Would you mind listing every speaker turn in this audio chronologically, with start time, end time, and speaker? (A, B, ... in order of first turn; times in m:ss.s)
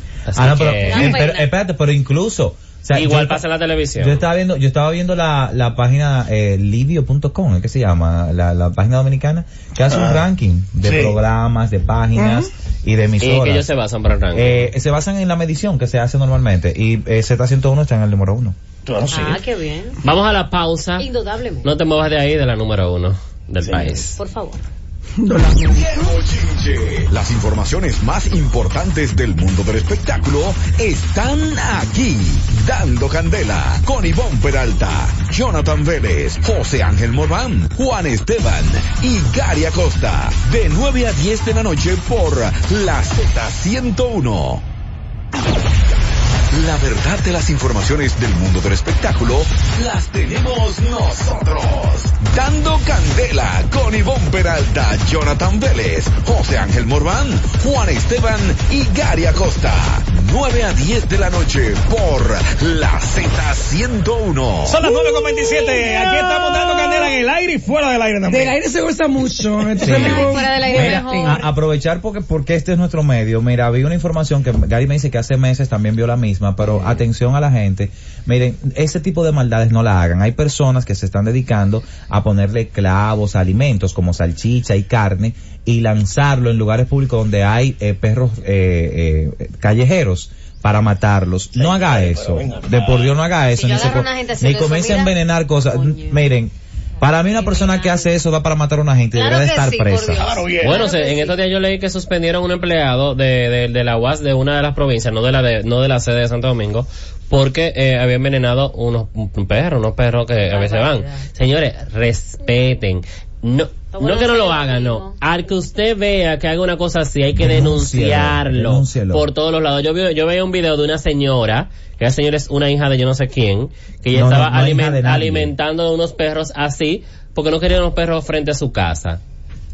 0:00.3-0:01.2 A
0:00.3-0:03.4 B
0:00.8-0:01.5 C
0:02.9-0:04.2 A
0:04.0-0:13.7 B
0:09.9-0:10.2 D
0:10.8-0:11.2 D
0:12.1-0:12.5 E
0:13.2-0:14.7 A
0:14.3-0:18.6 B
0:18.8-0:19.4 D
0:19.1-0:20.0 C
0:20.0-0:21.1 A
0:21.0-0:21.7 C
0:21.6-0:24.2 A
0:23.6-0:24.0 D
0:24.1-0:24.6 C
0:25.2-0:26.2 E
0:25.7-0:44.6 F
0:46.5-1:04.8 F
1:04.6-1:08.6 D
1:04.8-1:07.2 E
1:08.2-1:11.4 E
1:09.8-1:10.2 D
1:09.8-1:11.4 C
1:10.7-1:40.3 B
1:31.6-1:33.1 D
1:33.5-1:36.2 C
1:37.3-1:38.1 C
1:39.1-1:41.3 C
1:40.1-1:40.9 D
1:40.6-2:09.2 A
1:50.4-1:51.2 C
1:53.9-1:55.2 C
1:57.4-1:59.2 B
2:04.1-2:05.5 B